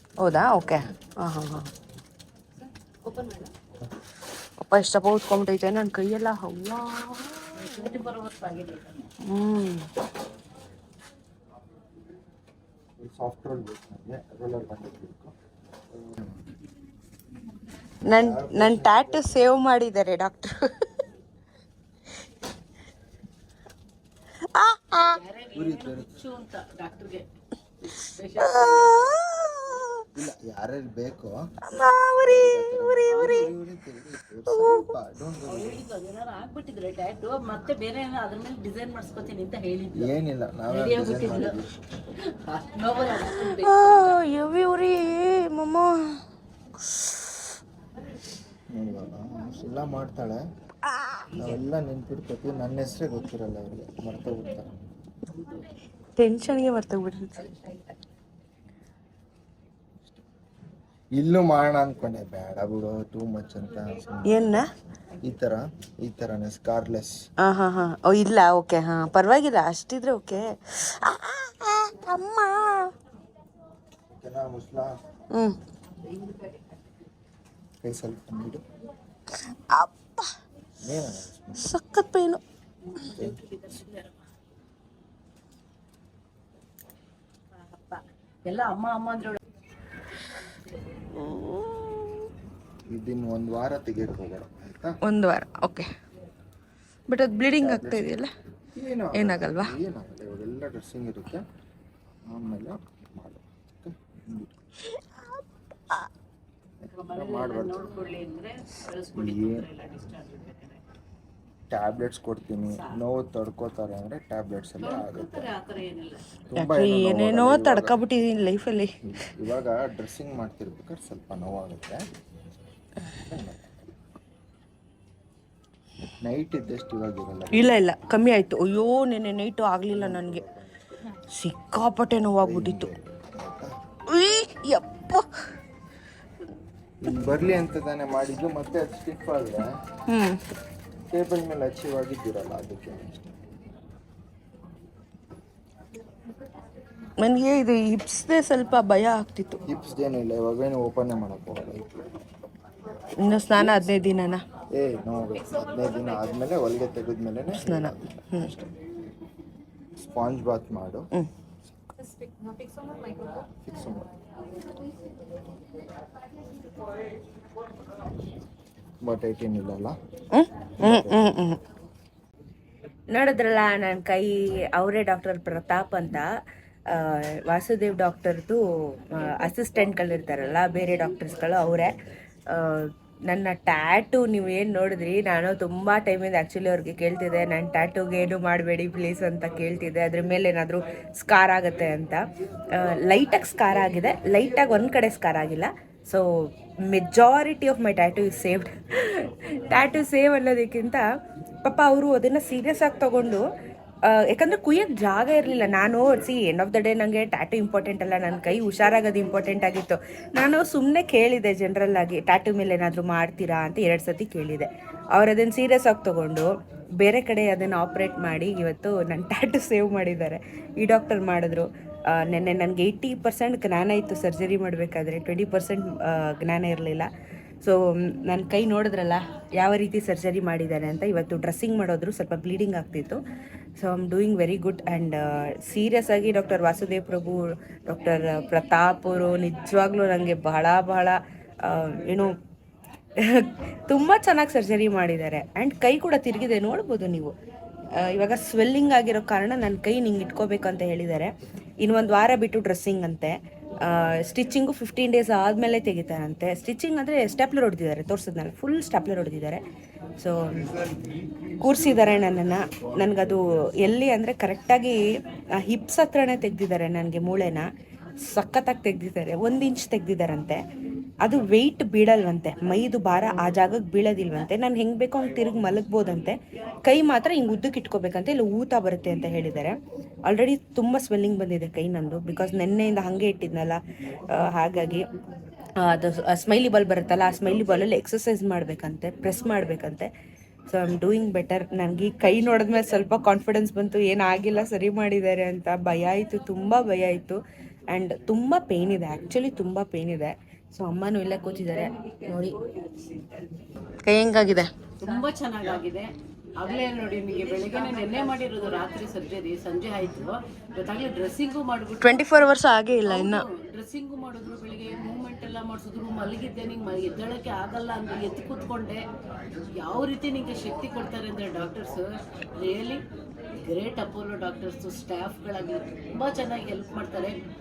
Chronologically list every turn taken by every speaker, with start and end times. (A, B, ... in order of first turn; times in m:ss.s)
0:00.2-0:01.7 A
0:03.0-0:03.5 B
0:04.6-0:07.8 A
0:07.6-0:09.1 B
0:09.2-0:09.9 A
0:13.0-0:15.3 C
0:15.9-0:16.4 C
0:18.0-0:20.5 A
0:18.1-0:19.3 C
0:24.5-0:25.2 A
0:25.1-0:27.2 B
0:25.5-0:26.1 C
0:27.8-0:29.2 B
0:28.4-0:30.1 A
0:30.1-0:31.4 C
0:31.7-0:33.5 A
0:32.2-0:35.8 C
0:33.1-0:33.5 B
0:34.5-0:34.9 A
0:35.4-0:40.1 B
0:39.9-0:41.8 C
0:40.7-0:41.6 B
0:42.4-0:44.1 B
0:43.2-0:45.9 A
0:46.9-0:47.2 A
0:48.7-0:50.4 C
0:50.9-0:51.3 A
0:51.4-0:54.7 C
0:55.3-0:55.6 B
0:56.2-0:57.8 A
1:01.1-1:04.6 C
1:04.2-1:04.6 A
1:05.2-1:07.2 C
1:07.4-1:12.9 A
1:14.1-1:15.0 C
1:17.8-1:18.6 C
1:19.7-1:20.2 A
1:20.8-1:21.7 C
1:21.6-1:22.4 A
1:22.9-1:24.2 B
1:27.5-1:29.4 B
1:31.1-1:32.2 A
1:32.9-1:35.0 C
1:35.0-1:35.8 A
1:37.1-1:38.3 A
1:37.6-1:38.1 C
1:38.7-1:41.4 C
1:39.1-1:39.7 A
1:42.3-1:44.5 C
1:46.9-1:50.8 B
1:47.1-1:47.9 C
1:49.1-1:49.7 C
1:51.7-1:55.5 C
1:52.7-1:53.0 B
1:54.8-1:56.2 B
1:56.5-1:58.0 C
1:56.5-1:58.9 A
1:59.0-2:02.1 C
2:03.1-2:03.8 C
2:06.2-2:07.8 C
2:07.5-2:10.4 A
2:09.9-2:11.0 C
2:11.3-2:12.9 A
2:12.4-2:13.7 C
2:14.1-2:15.2 A
2:17.0-2:19.8 C
2:20.1-2:20.4 A
2:21.1-2:23.4 C
2:27.2-2:29.6 A
2:29.7-2:32.1 C
2:33.2-2:34.4 A
2:34.7-2:38.7 C
2:37.5-2:38.6 A
2:40.0-2:41.0 C
2:43.6-2:44.1 C
2:49.0-2:50.0 C
2:50.3-2:51.6 A
2:50.8-2:51.3 C
2:53.1-2:56.2 A
2:56.9-3:02.0 A
3:02.5-3:21.0 A
3:21.6-3:23.4 A
3:24.1-3:47.1 A
3:47.6-3:53.2 A
3:53.8-4:02.3 A
4:03.3-4:07.3 A
4:08.0-4:19.6 A
4:20.2-4:20.6 A
4:21.6-4:25.0 A
4:25.6-4:27.7 A
4:28.2-4:30.6 A
4:31.2-4:43.8 A
4:44.3-4:45.1 A
4:45.8-4:50.1 A
4:50.7-5:02.6 A
5:04.0-5:04.7 A
5:05.0-5:12.5 B
5:12.0-5:13.4 A
5:13.0-5:19.0 B
5:19.8-5:23.0 B
5:23.6-5:27.3 B